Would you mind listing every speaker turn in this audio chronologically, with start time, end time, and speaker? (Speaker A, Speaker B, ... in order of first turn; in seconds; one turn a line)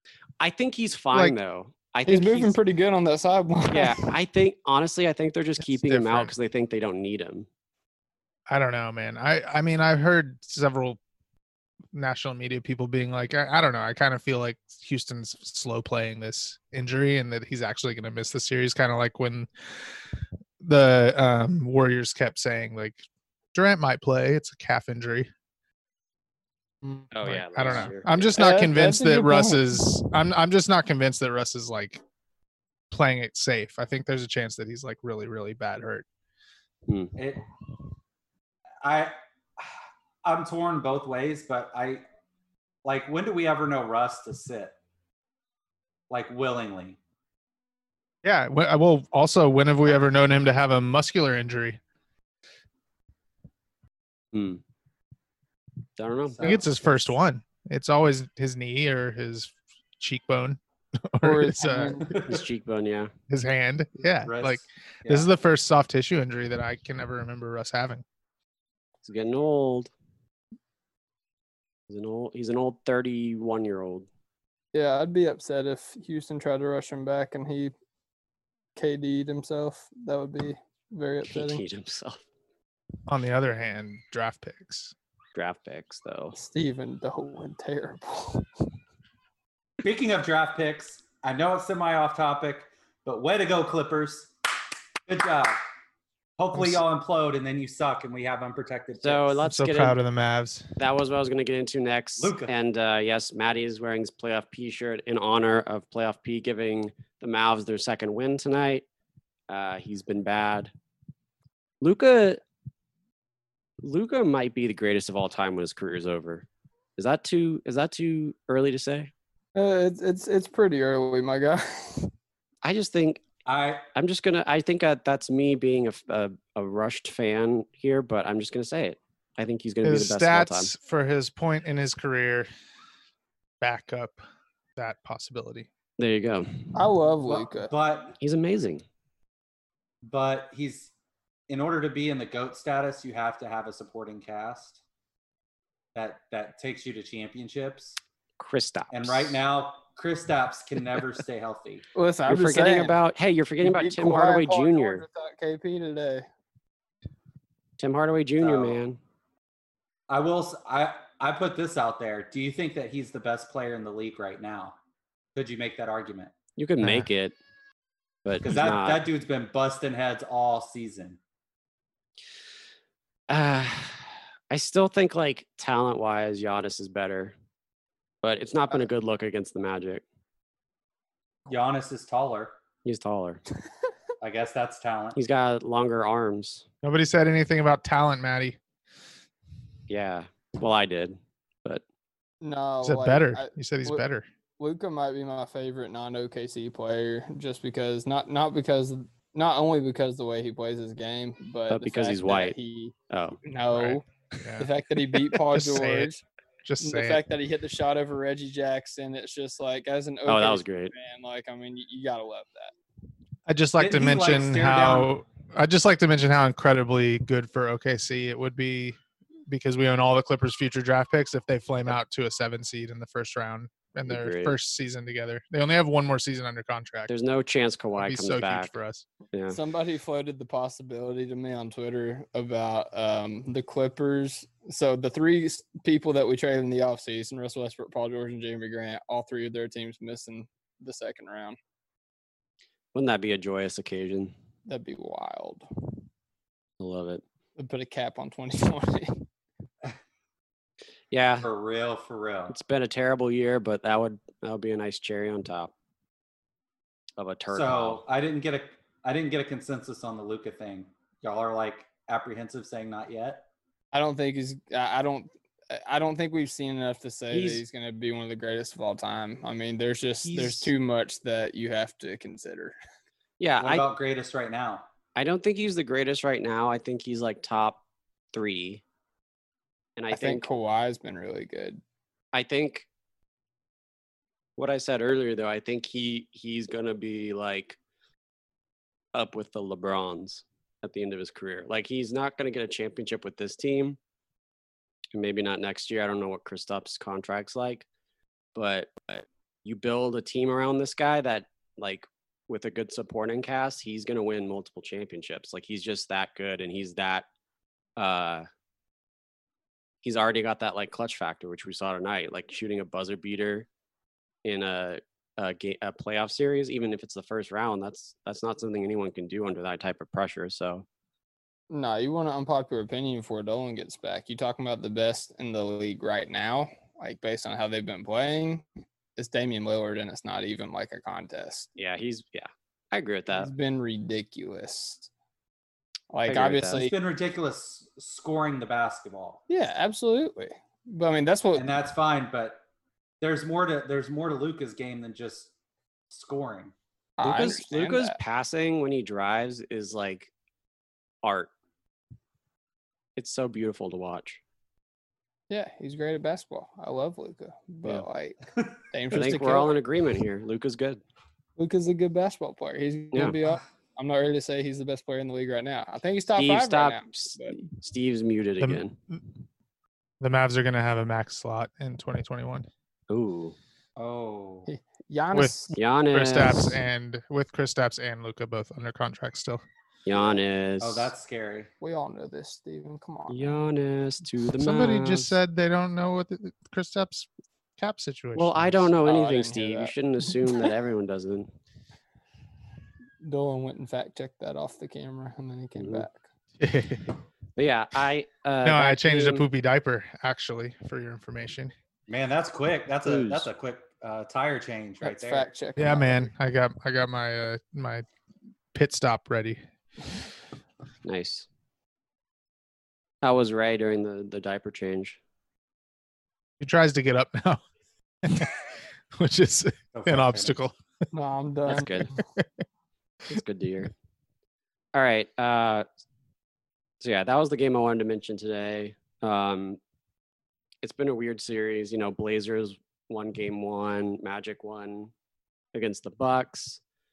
Speaker A: 0.4-2.6
Speaker B: 2.1-4.0
Speaker A: 3.7-7.5
Speaker C: 5.6-6.3
Speaker C: 8.5-11.0
Speaker C: 11.9-19.5
Speaker C: 20.6-23.0
Speaker C: 23.5-25.3
Speaker B: 26.8-27.1
Speaker A: 27.1-28.3
Speaker C: 27.2-32.0
Speaker B: 27.6-30.0
Speaker C: 32.9-36.0
Speaker A: 36.9-37.2
Speaker D: 37.2-37.4
Speaker D: 38.8-39.7
Speaker D: 40.2-42.0
Speaker D: 42.8-44.8
Speaker D: 46.1-47.0
Speaker C: 48.2-51.8
Speaker A: 54.3-54.6
Speaker A: 56.0-56.6
Speaker D: 56.3-56.9
Speaker C: 56.4-62.2
Speaker B: 61.2-62.2
Speaker A: 62.2-63.1
Speaker C: 63.3-68.0
Speaker D: 64.2-65.3
Speaker A: 69.0-69.9
Speaker A: 71.9-74.1
Speaker B: 74.7-77.7
Speaker B: 78.8-81.6
Speaker A: 81.2-82.2
Speaker C: 83.1-84.9
Speaker A: 85.3-86.4
Speaker B: 86.4-88.6
Speaker D: 89.8-94.3
Speaker D: 95.1-95.6
Speaker D: 96.4-99.4
Speaker C: 96.5-96.8
Speaker A: 99.0-100.0
Speaker C: 99.5-100.8
Speaker A: 100.8-108.8
Speaker D: 102.2-102.5
Speaker A: 109.5-110.7
Speaker A: 111.8-112.4
Speaker A: 113.8-119.1
Speaker B: 119.5-122.1
Speaker A: 122.6-123.2
Speaker D: 123.5-123.9
Speaker A: 124.0-130.7
Speaker C: 129.8-132.5
Speaker C: 133.6-134.2
Speaker C: 134.8-135.7
Speaker A: 136.0-136.8
Speaker B: 136.7-137.7
Speaker D: 137.4-138.2
Speaker A: 138.2-138.8
Speaker D: 140.0-140.9
Speaker D: 141.5-144.8
Speaker D: 145.9-148.0
Speaker A: 148.4-149.4
Speaker D: 148.9-151.9
Speaker B: 151.9-153.0
Speaker A: 152.3-155.0
Speaker B: 153.6-156.3
Speaker A: 157.8-159.0
Speaker D: 158.4-158.8
Speaker D: 160.1-164.8
Speaker D: 165.3-166.3
Speaker A: 166.6-167.4
Speaker C: 166.8-167.1
Speaker A: 168.2-169.1
Speaker D: 168.4-171.2
Speaker A: 173.3-177.3
Speaker A: 178.2-180.0
Speaker D: 181.5-182.6
Speaker A: 182.8-183.4
Speaker D: 184.2-185.2
Speaker A: 185.2-186.7
Speaker C: 186.8-188.6
Speaker A: 189.9-191.8
Speaker B: 192.4-194.0
Speaker C: 192.8-194.2
Speaker B: 194.6-204.1
Speaker A: 201.7-202.6
Speaker A: 203.1-203.4
Speaker C: 203.7-206.1
Speaker B: 204.6-206.2
Speaker C: 206.6-207.2
Speaker B: 206.8-212.7
Speaker A: 210.3-210.9
Speaker C: 213.5-227.1
Speaker D: 213.8-215.1
Speaker A: 224.1-224.6
Speaker A: 227.1-228.7
Speaker C: 228.0-229.1
Speaker A: 229.3-229.6
Speaker B: 229.5-241.6
Speaker A: 242.9-244.3
Speaker B: 244.7-246.0
Speaker A: 246.8-247.2
Speaker B: 247.6-249.2
Speaker A: 251.1-251.5
Speaker D: 251.4-252.6
Speaker A: 252.5-255.7
Speaker A: 257.2-258.0
Speaker D: 257.5-263.5
Speaker B: 263.9-272.8
Speaker A: 267.3-267.6
Speaker A: 270.2-270.7
Speaker D: 270.3-270.6
Speaker A: 273.4-273.9
Speaker D: 273.6-274.9
Speaker A: 275.2-277.8
Speaker A: 278.3-278.8
Speaker A: 280.0-280.5
Speaker B: 280.1-281.8
Speaker A: 282.3-282.9
Speaker A: 284.6-287.8
Speaker A: 289.1-294.0
Speaker A: 295.1-297.9
Speaker A: 298.6-307.3
Speaker A: 308.0-308.5
Speaker A: 310.0-313.7
Speaker A: 314.4-320.9
Speaker B: 321.7-331.7
Speaker A: 331.8-333.5
Speaker B: 333.3-335.1
Speaker B: 336.1-336.9
Speaker A: 336.3-336.9
Speaker D: 336.8-339.4
Speaker B: 339.5-341.7
Speaker D: 341.6-342.6
Speaker D: 343.2-345.5
Speaker D: 346.1-346.7
Speaker B: 347.2-348.2
Speaker A: 347.2-350.3
Speaker A: 351.2-351.5
Speaker A: 353.2-354.4
Speaker B: 355.5-359.8
Speaker A: 359.1-361.0
Speaker B: 361.6-367.6
Speaker A: 366.4-369.0
Speaker C: 368.6-369.2
Speaker C: 370.2-372.7
Speaker A: 373.1-373.6
Speaker D: 374.0-374.7
Speaker B: 374.7-375.8
Speaker C: 375.3-379.6
Speaker A: 375.8-376.8
Speaker A: 380.1-381.1
Speaker D: 380.8-381.7
Speaker B: 381.8-383.7
Speaker A: 383.3-385.4
Speaker C: 384.6-388.9
Speaker A: 388.4-391.5
Speaker B: 389.0-389.9
Speaker B: 393.2-396.2
Speaker A: 395.8-396.1
Speaker C: 396.6-397.2
Speaker A: 397.6-399.5
Speaker C: 398.6-401.7
Speaker D: 402.1-405.5
Speaker A: 403.0-403.5
Speaker B: 405.0-406.3
Speaker C: 405.8-408.1
Speaker C: 408.7-409.6
Speaker A: 411.1-411.5
Speaker A: 413.2-415.2
Speaker C: 416.6-417.6
Speaker C: 418.2-420.8
Speaker D: 419.9-420.6
Speaker B: 421.1-422.2
Speaker A: 421.7-422.1
Speaker A: 423.3-423.9
Speaker A: 424.9-425.9
Speaker A: 427.0-429.8
Speaker A: 430.8-435.1
Speaker A: 435.7-436.8